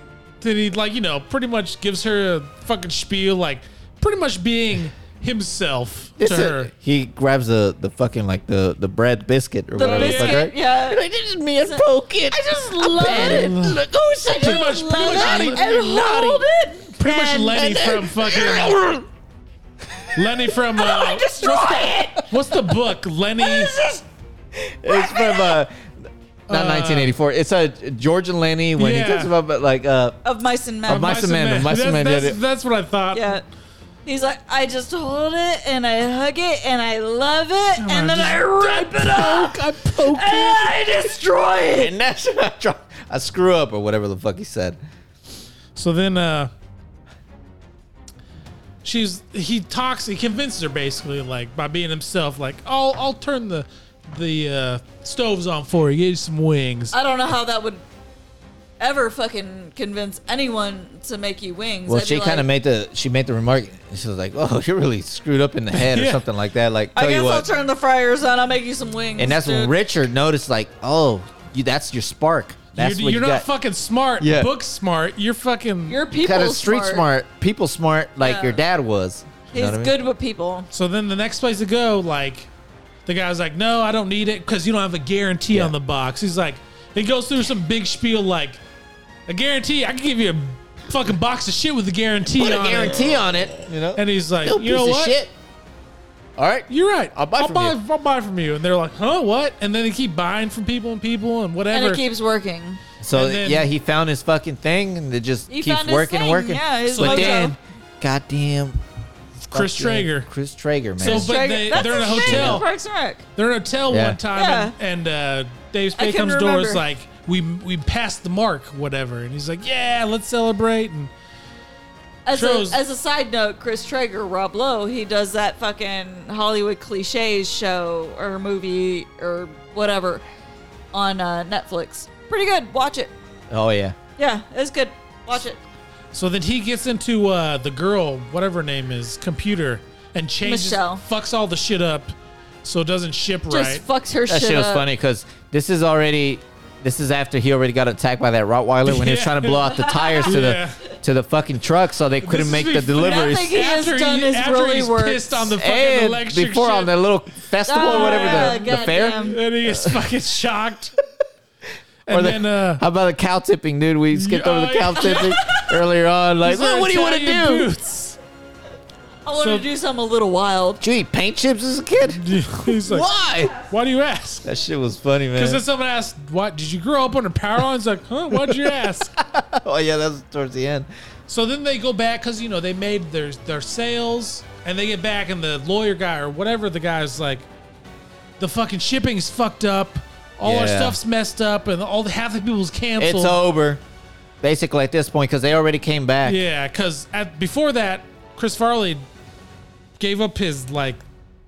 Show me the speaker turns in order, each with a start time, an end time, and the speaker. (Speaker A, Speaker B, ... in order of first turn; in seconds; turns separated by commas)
Speaker A: 0.4-6.7, Speaker B: 6.2-16.4, Speaker C: 9.7-11.0, Speaker A: 9.8-10.4, Speaker C: 11.6-13.6, Speaker A: 13.0-13.8, Speaker C: 14.2-17.8, Speaker A: 14.4-15.6, Speaker A: 16.9-18.8, Speaker B: 17.5-19.1, Speaker B: 19.9-20.3, Speaker A: 20.1-21.4, Speaker C: 20.8-22.2, Speaker B: 20.8-22.2, Speaker A: 22.2-23.7, Speaker B: 23.4-24.0, Speaker C: 23.7-24.0, Speaker B: 24.5-25.9, Speaker C: 24.9-25.6, Speaker A: 26.5-27.1, Speaker B: 26.5-30.2, Speaker A: 28.8-29.3, Speaker C: 30.2-31.1, Speaker B: 30.9-32.4, Speaker A: 30.9-33.4, Speaker C: 33.1-33.4, Speaker C: 34.0-41.9, Speaker A: 37.8-40.7, Speaker B: 41.7-44.8, Speaker A: 45.7-46.5, Speaker A: 48.8-56.9, Speaker C: 56.9-57.8, Speaker C: 58.8-62.5, Speaker B: 61.9-67.5, Speaker A: 65.7-66.2, Speaker C: 66.9-69.7, Speaker B: 69.2-73.5, Speaker A: 72.8-76.0, Speaker B: 74.2-74.5, Speaker C: 75.9-77.0, Speaker B: 76.2-79.9, Speaker C: 78.2-78.6, Speaker C: 79.5-80.7, Speaker A: 80.7-82.5, Speaker A: 83.0-88.6, Speaker A: 89.3-93.1, Speaker B: 92.4-95.3, Speaker A: 93.9-95.2, Speaker B: 96.4-97.8, Speaker A: 96.7-102.0, Speaker C: 101.7-102.8, Speaker B: 103.0-108.8, Speaker A: 103.1-103.7, Speaker C: 105.5-107.5, Speaker A: 106.9-107.5, Speaker A: 109.5-110.3, Speaker B: 109.5-112.6, Speaker A: 111.0-112.7, Speaker C: 111.0-113.2, Speaker A: 113.3-121.1, Speaker B: 113.9-114.2, Speaker C: 114.3-114.7, Speaker C: 116.0-116.8, Speaker C: 122.2-130.2, Speaker A: 122.3-122.8, Speaker C: 130.9-133.1, Speaker B: 133.5-133.9, Speaker C: 134.2-135.6, Speaker A: 136.1-143.8, Speaker C: 140.4-141.0, Speaker C: 143.5-144.8, Speaker B: 144.3-153.6, Speaker A: 148.8-149.7, Speaker C: 149.6-150.4, Speaker A: 150.2-150.8, Speaker A: 152.2-156.9, Speaker C: 153.0-155.5, Speaker B: 155.6-160.0, Speaker C: 157.7-159.4, Speaker A: 157.8-161.0, Speaker A: 162.1-162.8, Speaker B: 162.1-167.7, Speaker A: 164.1-165.6, Speaker C: 165.1-165.7, Speaker A: 166.4-168.2, Speaker C: 169.2-170.8, Speaker A: 169.4-169.7, Speaker B: 170.8-173.5, Speaker A: 172.1-173.1, Speaker A: 173.7-174.4, Speaker B: 174.4-175.6, Speaker A: 175.3-179.1, Speaker B: 178.3-180.9, Speaker A: 181.3-187.5, Speaker A: 188.4-193.4, Speaker B: 190.4-191.0, Speaker B: 193.0-193.8, Speaker B: 194.4-196.4, Speaker A: 196.2-199.0, Speaker A: 200.0-201.0